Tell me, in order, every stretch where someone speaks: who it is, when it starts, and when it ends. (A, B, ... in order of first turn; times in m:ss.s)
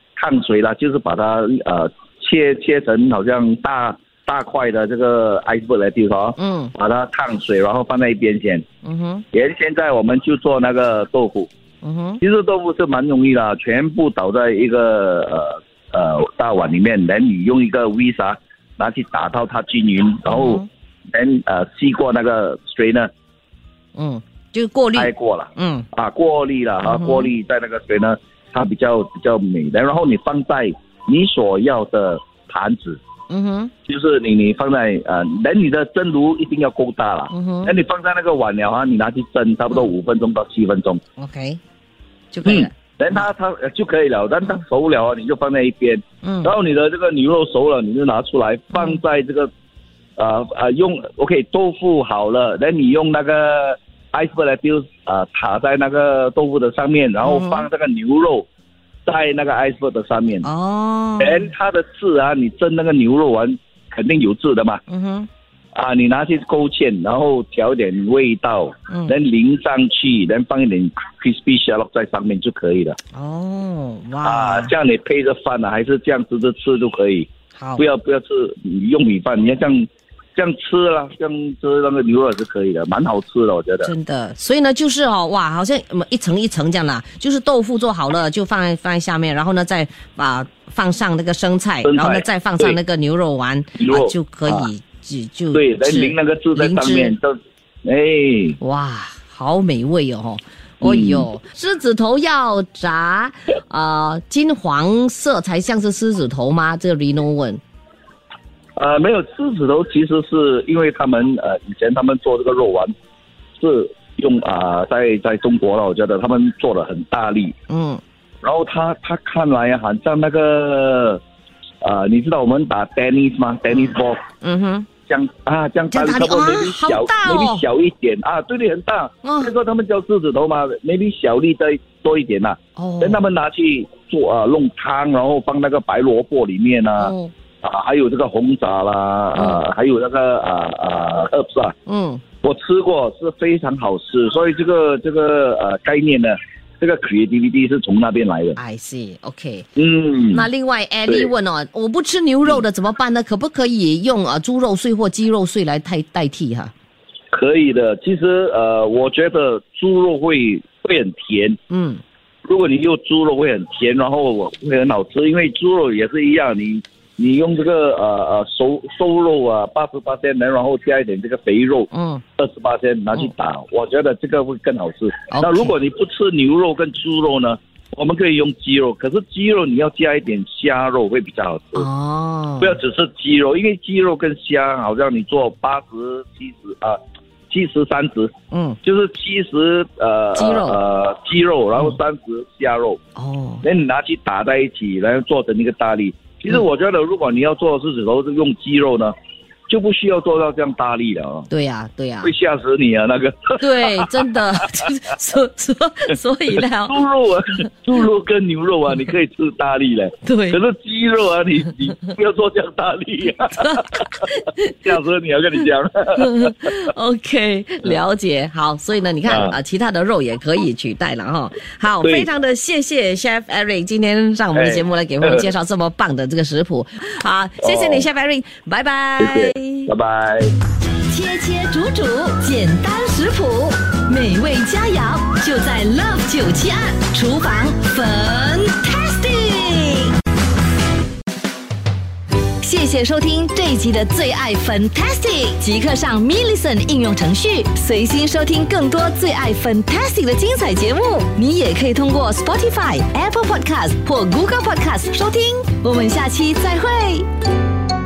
0:00.2-0:08.7 A
0:06.4-0:06.7 B
0:08.8-0:09.2 B
0:09.3-0:11.5 A
0:11.8-0:12.2 B
0:12.2-0:23.1 A
0:20.3-0:20.7 B
0:24.0-0:25.9 B
0:24.9-0:33.0 A
0:26.8-0:27.3 B
0:33.3-0:33.7 B
0:33.9-0:41.0 A
0:37.3-0:37.8 B
0:41.2-0:41.6 B
0:42.3-0:43.2 B
0:42.4-0:49.5 A
0:46.2-0:46.5 B
0:48.7-0:49.0 B
0:50.2-0:58.5 A
0:57.2-0:57.7 B
0:59.1-1:00.5 A
1:00.4-1:01.5 B
1:01.2-1:04.8 A
1:04.9-1:05.3 B
1:05.8-1:13.0 A
1:13.1-1:14.7 B
1:14.2-1:23.9 A
1:17.6-1:17.8 B
1:23.8-1:37.2 B
1:31.8-1:32.8 A
1:33.8-1:34.7 A
1:35.5-1:38.6 A
1:38.6-1:47.6 B
1:40.8-1:41.3 A
1:48.8-1:52.9 A
1:53.6-1:57.5 A
1:57.7-1:58.0 B
1:58.4-2:01.2 A
2:01.8-2:04.2 A
2:03.7-2:04.9 B
2:05.1-2:21.8 A
2:05.9-2:07.6 B
2:09.2-2:09.5 B
2:12.8-2:13.2 B
2:17.0-2:17.3 B
2:19.4-2:19.6 B
2:21.9-2:22.2 B
2:22.4-2:28.6 A
2:28.6-2:29.7 B
2:29.8-2:30.5 A
2:30.3-2:36.7 B
2:37.3-2:41.6 A
2:41.7-2:42.0 B
2:42.5-3:01.9 A
2:51.9-2:52.2 B
2:55.3-2:55.7 B
3:01.8-3:02.8 B
3:02.6-3:07.0 A
3:07.5-3:08.3 A
3:08.5-3:08.8 B
3:08.8-3:13.0 A
3:10.4-3:10.8 B
3:13.2-3:13.6 B
3:13.6-3:19.1 A
3:19.7-3:21.5 A
3:21.5-3:22.3 B
3:22.2-3:24.2 A
3:23.6-3:26.9 B
3:26.6-3:34.1 A
3:30.3-3:30.6 B
3:33.6-3:34.9 B
3:34.8-3:36.8 A
3:36.2-3:49.9 B
3:39.2-3:39.6 A
3:42.0-3:42.3 A
3:44.6-3:45.5 A
3:47.6-3:48.1 A
3:49.2-3:50.5 A
3:51.1-4:00.2 C
4:02.6-4:17.3 C